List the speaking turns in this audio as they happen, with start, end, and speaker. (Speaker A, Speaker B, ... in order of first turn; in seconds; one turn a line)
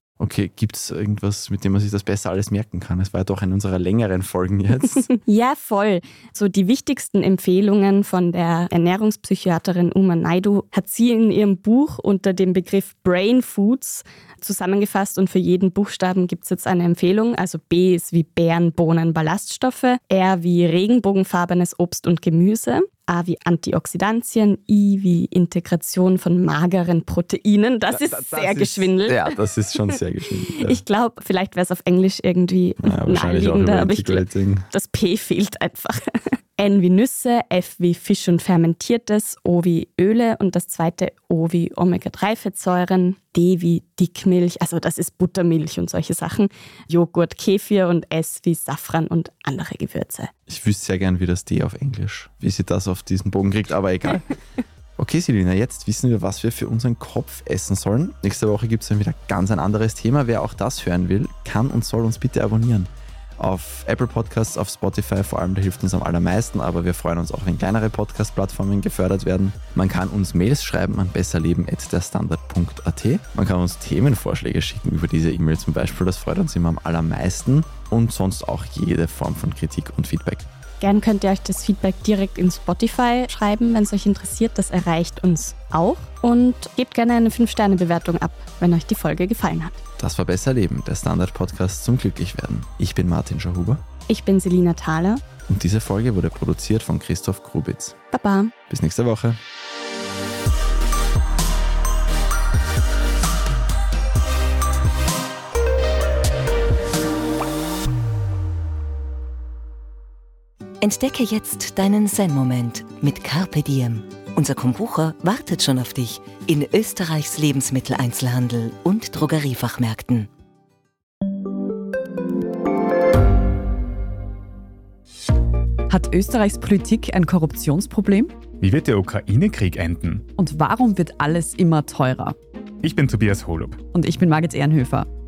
Speaker A: 0.2-5.1
Speaker B: 5.1-29.2
Speaker A: 27.9-30.8
Speaker B: 30.6-50.3
Speaker A: 32.8-34.7
Speaker A: 50.5-54.3
Speaker A: 55.0-80.5
Speaker B: 80.8-89.8
Speaker A: 90.0-93.8
Speaker B: 94.1-95.2
Speaker A: 95.5-98.0
Speaker B: 98.1-98.5
Speaker A: 98.7-99.4
Speaker C: 110.8-120.3
Speaker D: 125.9-128.4
Speaker E: 128.6-130.3
Speaker D: 130.4-132.4
Speaker E: 132.8-133.9
Speaker D: 133.9-135.1